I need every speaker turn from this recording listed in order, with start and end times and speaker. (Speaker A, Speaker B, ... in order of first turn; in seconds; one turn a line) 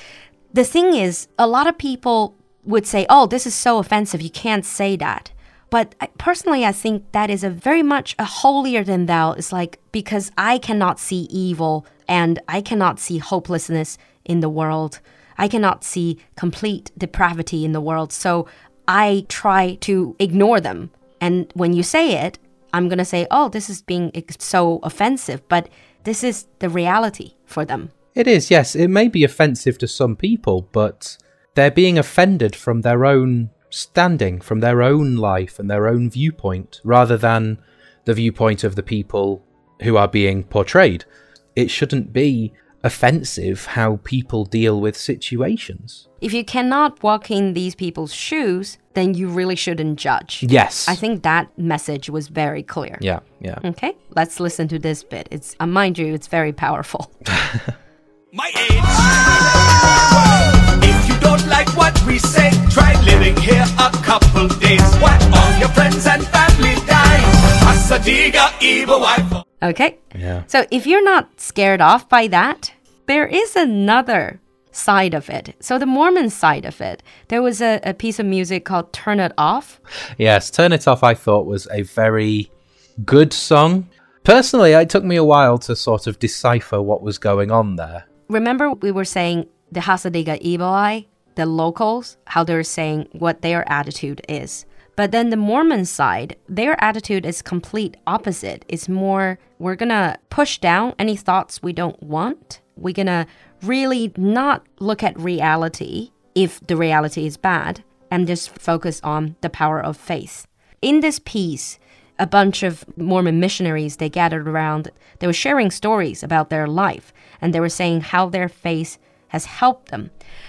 Speaker A: 0.5-27.9
Speaker B: 28.1-46.0
Speaker A: 46.2-53.0
Speaker B: 50.4-51.0
Speaker B: 53.0-53.6
Speaker A: 53.6-57.2
Speaker C: 58.3-69.4
Speaker A: 69.6-79.8
Speaker B: 70.2-70.5
Speaker B: 80.2-82.5
Speaker B: 83.0-88.0
Speaker A: 88.3-120.1